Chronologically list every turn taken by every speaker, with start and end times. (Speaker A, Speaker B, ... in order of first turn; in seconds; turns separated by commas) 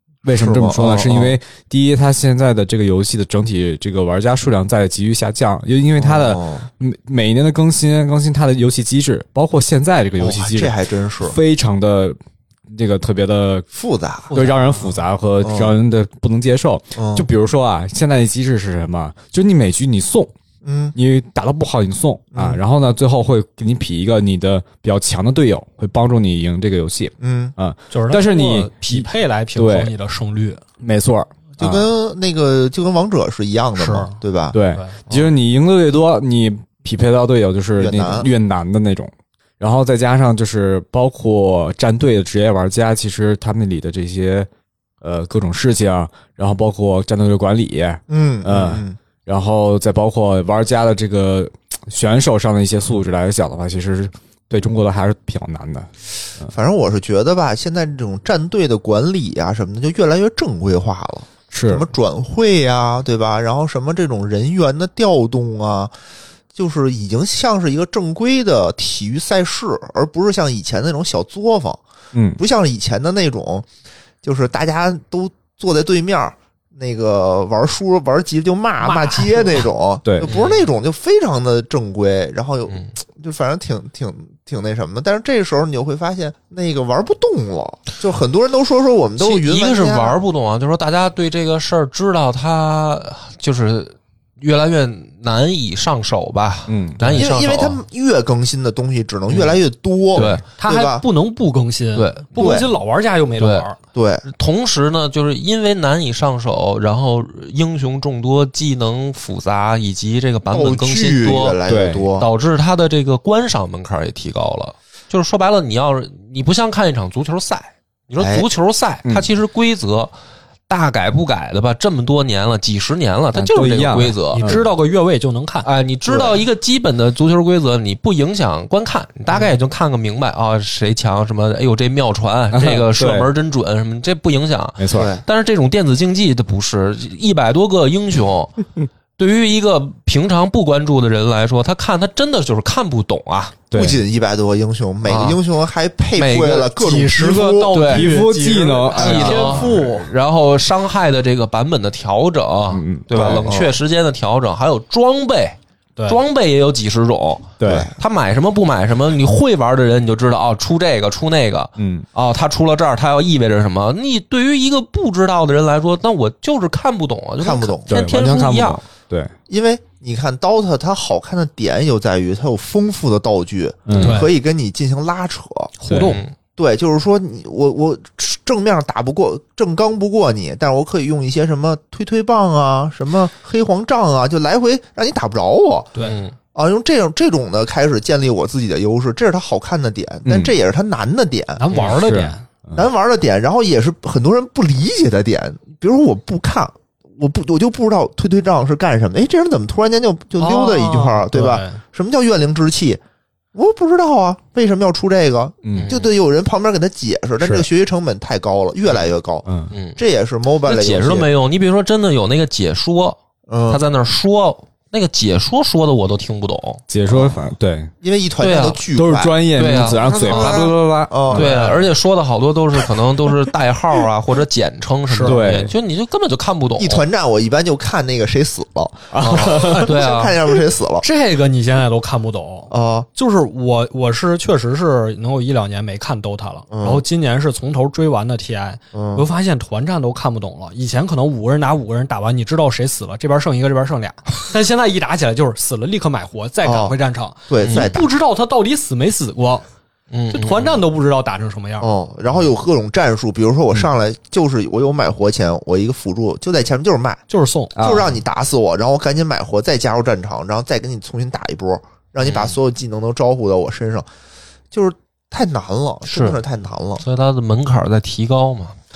Speaker A: 0.2-12.2, Speaker B: 0.3-1.4, Speaker B: 6.0-6.7, Speaker B: 10.2-11.4, Speaker A: 12.7-13.7, Speaker B: 13.7-14.4, Speaker C: 14.3-15.0, Speaker A: 14.3-20.3, Speaker B: 15.4-15.7, Speaker B: 17.0-17.3, Speaker B: 20.6-21.0, Speaker A: 20.9-29.9, Speaker B: 22.3-22.6, Speaker B: 27.2-27.6, Speaker C: 27.9-30.6, Speaker A: 30.8-31.9, Speaker B: 31.6-34.6, Speaker C: 33.8-34.2, Speaker A: 34.5-44.5, Speaker C: 34.7-35.0, Speaker B: 37.8-38.3, Speaker A: 45.0-55.9, Speaker B: 48.1-49.0, Speaker B: 56.5-65.9, Speaker A: 61.5-61.9, Speaker B: 66.5-71.8, Speaker A: 72.1-72.4, Speaker B: 72.4-73.7, Speaker B: 74.2-90.2, Speaker C: 78.8-79.6, Speaker D: 80.2-80.7, Speaker D: 89.2-97.8, Speaker A: 96.7-97.1, Speaker C: 97.0-97.3, Speaker B: 97.2-101.0, Speaker D: 99.3-99.6, Speaker D: 100.1-100.4, Speaker C: 100.6-103.8, Speaker D: 102.0-102.3, Speaker B: 102.4-102.7, Speaker D: 103.4-103.7, Speaker B: 103.9-104.2, Speaker D: 104.3-111.6, Speaker B: 110.5-112.3, Speaker A: 111.7-112.1, Speaker D: 112.2-120.1, Speaker B: 118.2-118.5, Speaker A: 119.0-119.3, Speaker D: 120.7-124.6, Speaker A: 123.3-124.6, Speaker C: 124.3-125.7, Speaker D: 125.6-138.6, Speaker B: 126.1-126.4, Speaker A: 132.5-133.3, Speaker A: 134.8-135.1, Speaker B: 134.9-135.2, Speaker D: 139.2-143.6, Speaker A: 143.7-144.0, Speaker B: 143.7-147.8, Speaker D: 145.1-145.4, Speaker D: 146.2-146.7, Speaker C: 146.7-150.1, Speaker D: 147.7-148.1, Speaker A: 147.9-149.8, Speaker D: 149.0-168.8, Speaker A: 152.7-153.5, Speaker B: 153.2-153.8, Speaker A: 157.6-157.9, Speaker B: 157.6-157.9, Speaker A: 161.8-162.1, Speaker B: 167.4-168.1, Speaker A: 167.9-169.3, Speaker B: 169.5-175.7, Speaker A: 173.9-174.2, Speaker C: 174.0-174.3, Speaker C: 175.8-176.2, Speaker A: 175.8-176.2, Speaker D: 175.9-176.3, Speaker B: 176.6-185.9, Speaker D: 186.0-186.3, Speaker B: 186.5-191.6, Speaker A: 190.2-190.6, Speaker C: 191.6-192.4, Speaker D: 191.7-192.0, Speaker A: 191.8-192.8, Speaker B: 192.8-203.0, Speaker C: 200.4-201.8, Speaker B: 203.6-211.3, Speaker A: 205.6-205.9, Speaker D: 205.7-206.1, Speaker A: 207.4-207.7, Speaker A: 209.5-209.7, Speaker D: 209.7-210.0, Speaker D: 210.6-213.2, Speaker B: 213.5-213.8, Speaker D: 213.7-216.8, Speaker A: 216.9-217.9, Speaker B: 217.1-217.4, Speaker B: 218.0-219.3, Speaker D: 218.4-218.8, Speaker A: 218.9-221.5, Speaker D: 219.6-227.1, Speaker B: 220.1-221.6, Speaker C: 221.3-221.8, Speaker C: 225.1-225.4, Speaker A: 225.2-225.7, Speaker B: 226.8-231.0, Speaker A: 229.2-229.6, Speaker D: 229.2-230.4, Speaker C: 229.6-229.9, Speaker C: 231.0-249.6, Speaker B: 232.7-233.1, Speaker B: 236.7-237.0, Speaker B: 238.9-239.3, Speaker B: 246.6-247.0, Speaker B: 247.5-248.1, Speaker D: 247.6-247.9, Speaker D: 250.1-250.8, Speaker C: 250.3-251.9, Speaker B: 251.8-257.2, Speaker C: 257.3-257.8, Speaker A: 257.8-258.1, Speaker B: 257.8-264.1, Speaker D: 262.2-262.6, Speaker B: 264.7-267.0, Speaker D: 266.1-266.4, Speaker D: 267.0-268.8